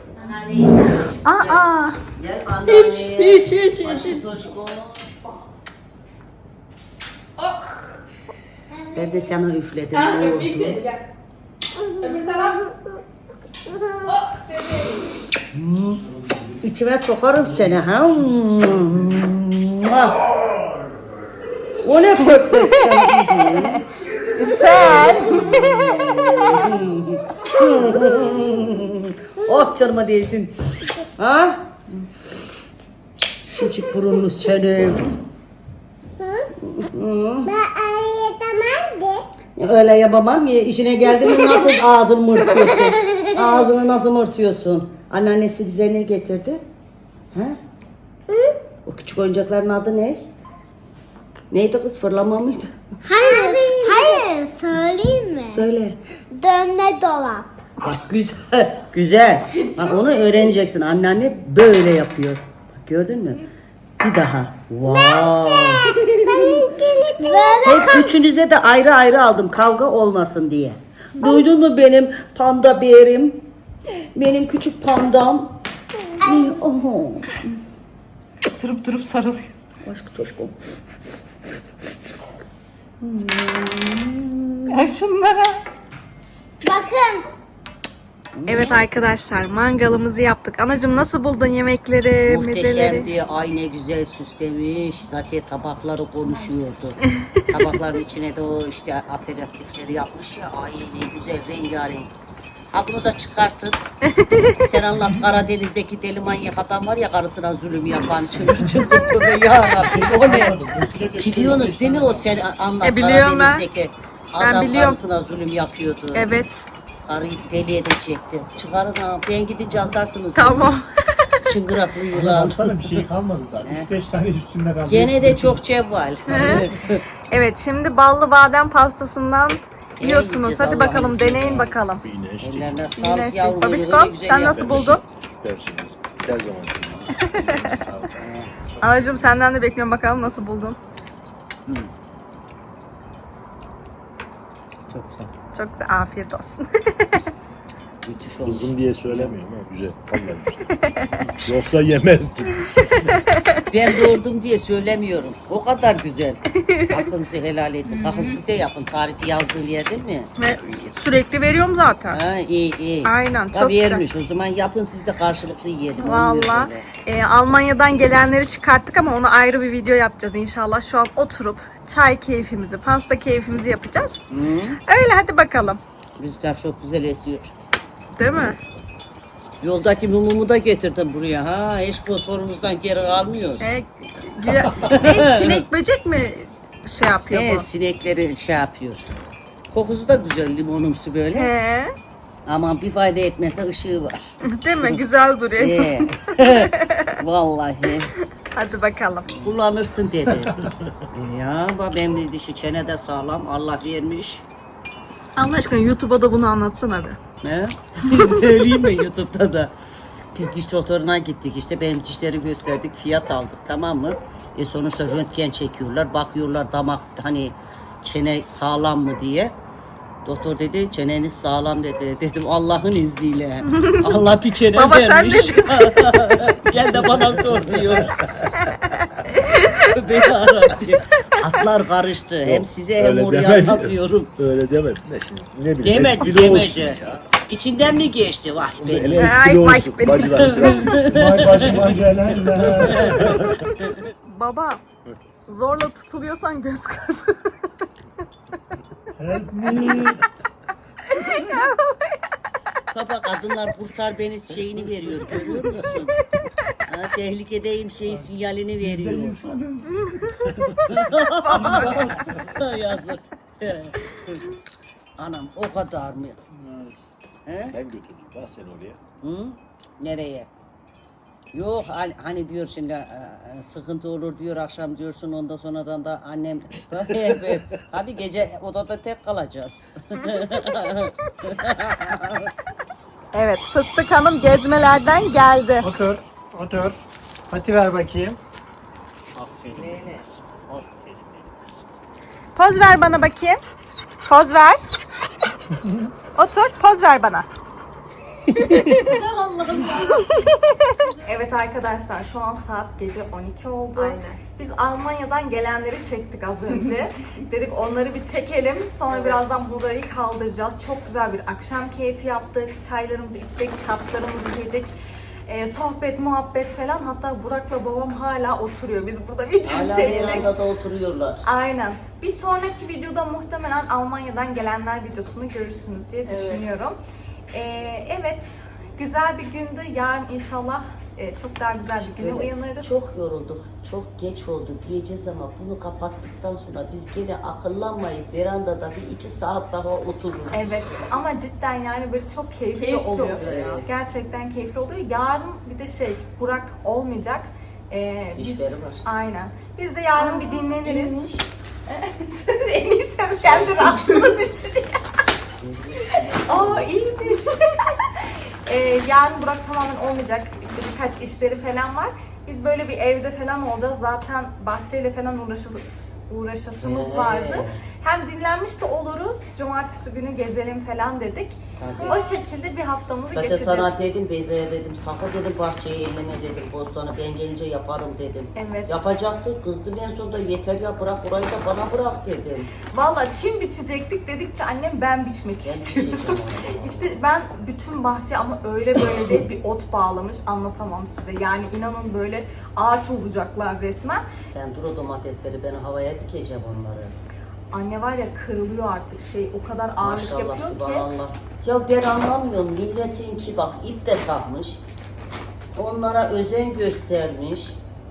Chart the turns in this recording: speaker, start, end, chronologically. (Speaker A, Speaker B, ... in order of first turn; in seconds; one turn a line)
Speaker A: 0.1-5.1
Speaker B: 1.2-2.0
Speaker C: 2.7-4.3
Speaker C: 7.4-8.0
Speaker D: 8.8-9.3
Speaker A: 8.9-10.8
Speaker C: 9.9-11.1
Speaker D: 11.8-12.5
Speaker C: 12.0-12.7
Speaker D: 13.7-14.2
Speaker C: 14.0-15.1
Speaker A: 15.5-16.1
Speaker A: 16.6-20.2
Speaker A: 21.8-23.8
Speaker B: 22.2-23.6
Speaker B: 24.4-25.9
Speaker A: 24.7-30.5
Speaker A: 31.2-32.0
Speaker A: 33.5-35.2
Speaker A: 36.6-37.5
Speaker D: 37.5-39.2
Speaker A: 39.5-46.6
Speaker D: 41.2-41.8
Speaker D: 42.4-43.7
Speaker A: 47.3-47.6
Speaker D: 48.3-48.5
Speaker A: 48.8-50.2
Speaker A: 51.5-52.8
Speaker D: 53.0-55.6
Speaker A: 55.5-56.0
Speaker D: 56.3-57.5
Speaker A: 57.8-63.4
Speaker C: 59.5-60.5
Speaker A: 64.0-66.6
Speaker D: 64.8-68.1
Speaker A: 67.6-73.4
Speaker A: 74.1-75.6
Speaker D: 76.2-76.5
Speaker A: 76.2-77.3
Speaker B: 78.5-79.5
Speaker A: 79.8-80.6
Speaker A: 83.0-84.7
Speaker B: 84.7-85.6
Speaker D: 86.6-87.2
Speaker A: 88.3-88.8
Speaker B: 88.5-93.1
Speaker A: 92.2-102.1
Speaker B: 97.2-97.5
Speaker A: 102.7-103.8
Speaker B: 104.0-104.6
Speaker A: 104.5-110.6
Speaker E: 109.7-112.4
Speaker F: 110.2-110.6
Speaker A: 111.2-116.3
Speaker B: 112.8-113.6
Speaker B: 114.4-115.0
Speaker B: 116.1-116.7
Speaker A: 117.0-120.7
Speaker B: 120.3-121.4
Speaker A: 121.4-123.0
Speaker F: 122.1-125.6
Speaker A: 123.6-123.9
Speaker A: 124.8-127.0
Speaker B: 126.3-126.7
Speaker B: 127.3-132.0
Speaker A: 130.0-131.8
Speaker E: 132.0-132.8
Speaker A: 132.4-134.9
Speaker B: 133.0-135.0
Speaker E: 134.3-138.2
Speaker B: 137.2-137.8
Speaker A: 138.2-138.5
Speaker B: 138.8-140.8
Speaker A: 144.9-145.3
Speaker B: 145.5-147.2
Speaker A: 148.0-149.3
Speaker E: 148.4-150.7
Speaker B: 150.8-151.2
Speaker E: 151.4-153.2
Speaker B: 152.7-153.6
Speaker A: 153.7-160.3
Speaker B: 156.6-157.0
Speaker B: 157.9-158.4
Speaker B: 160.4-162.2
Speaker A: 162.1-166.8
Speaker B: 163.0-164.0
Speaker B: 166.0-174.2
Speaker A: 174.3-174.8
Speaker B: 174.8-175.8
Speaker A: 176.2-177.5
Speaker B: 178.2-178.6
Speaker A: 179.6-183.7
Speaker B: 183.6-187.7
Speaker A: 184.8-185.6
Speaker A: 187.3-189.1
Speaker A: 189.7-191.5
Speaker B: 191.3-191.9
Speaker A: 192.4-195.0
Speaker B: 194.4-197.2
Speaker A: 195.6-198.1
Speaker B: 198.5-199.3
Speaker A: 199.3-204.4
Speaker B: 205.4-207.2
Speaker A: 207.4-209.7
Speaker A: 210.3-219.5
Speaker A: 220.2-228.2
Speaker B: 223.7-224.0
Speaker B: 224.7-226.1
Speaker E: 227.0-228.5
Speaker B: 228.9-229.9
Speaker A: 229.7-234.3
Speaker E: 232.4-237.2
Speaker A: 235.8-239.3
Speaker E: 238.8-243.6
Speaker B: 239.2-240.7
Speaker A: 240.4-241.9
Speaker F: 241.1-243.6
Speaker A: 242.7-243.3
Speaker B: 244.2-244.8
Speaker B: 245.5-247.5
Speaker F: 249.2-250.2
Speaker A: 249.7-250.1
Speaker B: 251.1-252.0
Speaker A: 252.9-256.1
Speaker A: 256.9-259.5
Speaker F: 258.8-260.4
Speaker A: 260.9-264.4
Speaker B: 261.4-262.3
Speaker A: 265.2-266.4
Speaker A: 267.5-267.7
Speaker E: 267.7-269.0
Speaker A: 269.2-270.5
Speaker A: 271.5-282.5
Speaker B: 283.3-285.9
Speaker F: 285.8-286.9
Speaker F: 287.5-288.4
Speaker F: 289.4-290.0
Speaker E: 289.7-290.6
Speaker A: 289.7-290.2
Speaker F: 290.6-291.6
Speaker E: 291.3-291.7
Speaker B: 292.6-293.6
Speaker B: 294.2-294.8
Speaker B: 296.4-297.5
Speaker B: 298.6-299.1
Speaker A: 298.8-300.5
Speaker B: 301.2-314.9
Speaker C: 303.9-304.4
Speaker C: 309.1-309.5
Speaker B: 315.5-320.5
Speaker A: 319.6-321.4
Speaker B: 321.4-327.0
Speaker C: 326.2-326.8
Speaker B: 327.5-332.9
Speaker A: 332.0-341.1
Speaker B: 340.5-351.3
Speaker C: 342.7-343.8
Speaker A: 343.4-343.9
Speaker A: 348.4-349.0
Speaker C: 350.2-351.4
Speaker B: 351.9-355.1
Speaker A: 353.4-354.4
Speaker A: 355.6-357.0
Speaker B: 356.4-374.0
Speaker A: 366.8-367.8
Speaker A: 371.8-372.2
Speaker C: 372.0-372.3
Speaker A: 373.3-382.7
Speaker B: 378.5-379.0
Speaker B: 382.9-394.3
Speaker A: 385.6-387.1
Speaker A: 394.5-397.1
Speaker B: 397.7-401.1
Speaker A: 400.0-404.8
Speaker A: 405.8-407.8